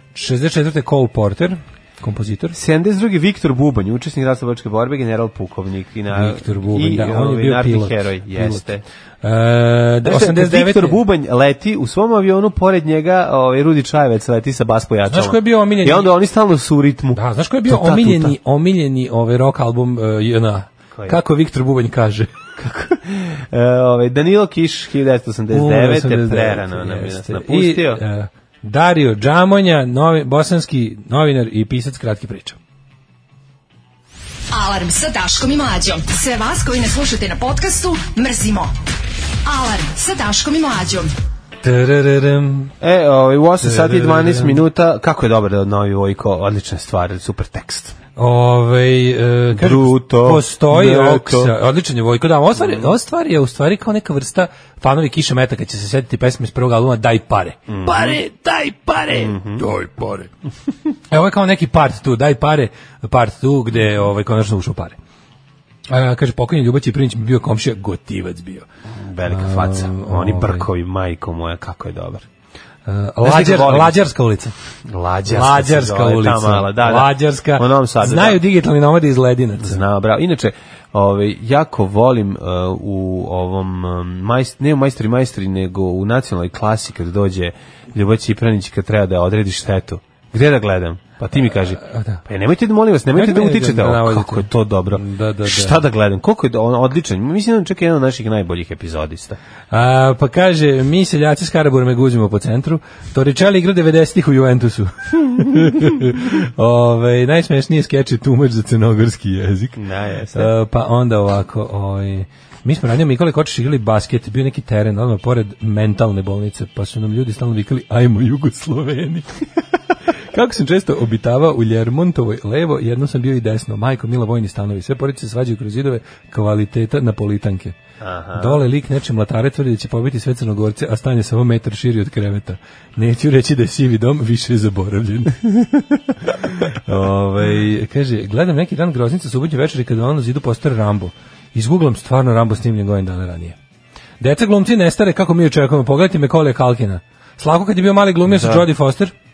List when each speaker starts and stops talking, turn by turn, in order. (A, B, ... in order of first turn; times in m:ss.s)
0:00.2-0:02.6 A
0:02.5-0:08.8 B
0:06.1-0:08.7 A
0:09.2-0:11.0 A
0:10.0-0:18.4 B
0:15.1-0:16.1 A
0:17.2-0:22.3 A
0:20.9-0:21.2 B
0:22.6-0:28.0 B
0:25.5-0:32.6 A
0:34.5-0:38.7 C
0:39.4-0:41.1 C
0:41.6-0:42.7 A
0:42.8-0:48.0 B
0:43.6-0:44.6 A
0:48.2-1:00.3 A
0:49.6-0:51.5 B
0:52.6-0:53.0 B
0:57.7-0:58.2 B
0:59.1-0:59.6 B
1:01.1-1:05.0 A
1:05.9-1:08.6 A
1:09.0-1:12.3 B
1:09.3-1:10.7 A
1:12.9-1:14.5 A
1:13.2-1:14.0 B
1:14.9-1:18.4 B
1:15.3-1:19.8 A
1:19.6-1:39.4 B
1:31.8-1:32.2 A
1:33.1-1:35.8 A
1:39.7-1:49.8 A
1:49.8-1:50.5 B
1:50.3-1:59.4 A
2:00.3-2:07.8 A
2:08.0-2:08.6 B
2:08.4-2:15.4 A
2:16.6-2:23.6 A
2:24.2-2:29.1 A
2:28.3-2:28.7 B